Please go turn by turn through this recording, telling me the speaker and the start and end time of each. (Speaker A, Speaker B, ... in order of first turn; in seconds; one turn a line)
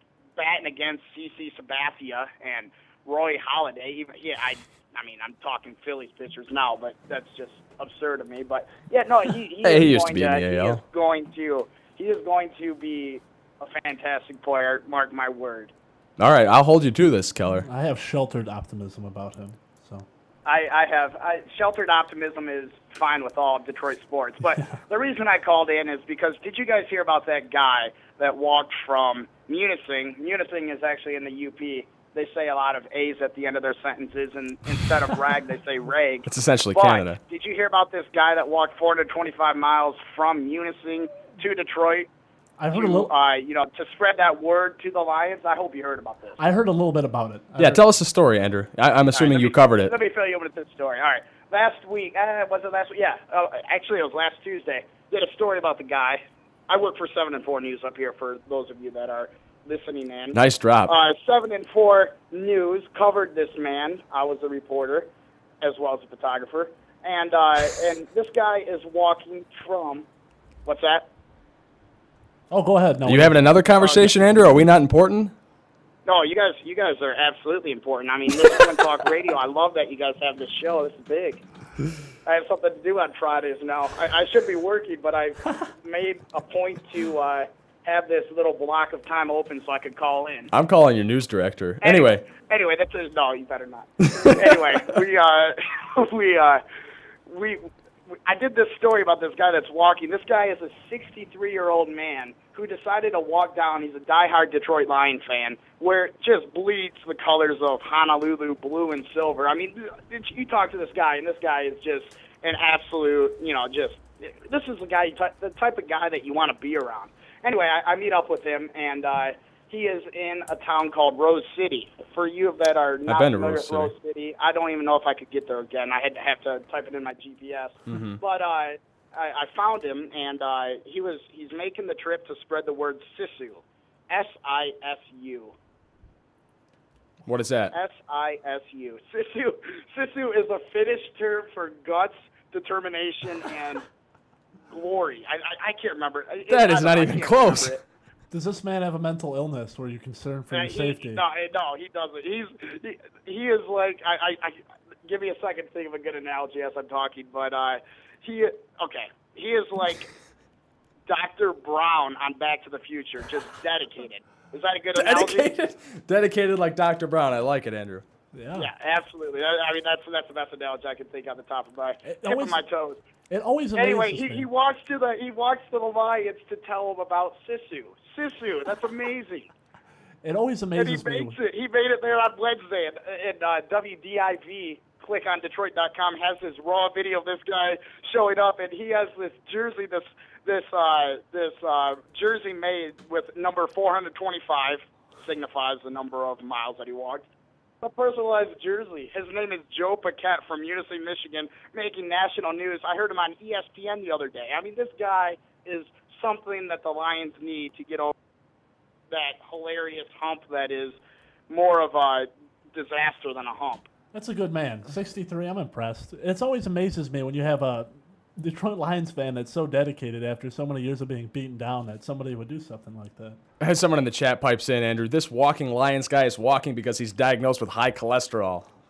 Speaker A: 0.4-15.7
Speaker B: 9.6-10.8
Speaker B: 16.2-17.7
Speaker C: 17.6-20.1
Speaker A: 20.4-42.1
Speaker B: 36.2-37.2
Speaker C: 42.6-43.1
Speaker A: 42.7-46.4
Speaker C: 46.4-47.8
Speaker B: 47.6-49.9
Speaker A: 49.1-65.1
Speaker B: 60.3-60.9
Speaker A: 65.6-70.0
Speaker A: 70.6-71.1
Speaker C: 72.5-73.5
Speaker B: 73.0-75.3
Speaker A: 73.7-74.2
Speaker A: 76.0-81.4
Speaker A: 82.2-90.5
Speaker B: 90.5-92.2
Speaker A: 91.8-96.6
Speaker B: 94.0-94.9
Speaker A: 97.2-97.7
Speaker A: 98.2-135.6
Speaker B: 123.1-123.9
Speaker B: 127.9-128.2
Speaker B: 137.2-137.7
Speaker A: 137.7-143.8
Speaker A: 144.7-147.8
Speaker B: 146.5-147.8
Speaker C: 148.3-151.2
Speaker A: 150.5-160.1
Speaker A: 161.1-165.5
Speaker B: 164.9-168.0
Speaker C: 168.3-168.7
Speaker A: 168.5-173.0
Speaker C: 172.0-172.6
Speaker C: 173.3-174.5
Speaker A: 173.7-179.5
Speaker C: 180.2-181.4
Speaker A: 180.7-197.2
Speaker A: 197.8-208.1
Speaker A: 209.1-211.0
Speaker A: 211.5-213.9
Speaker C: 214.1-223.4
Speaker B: 223.6-228.7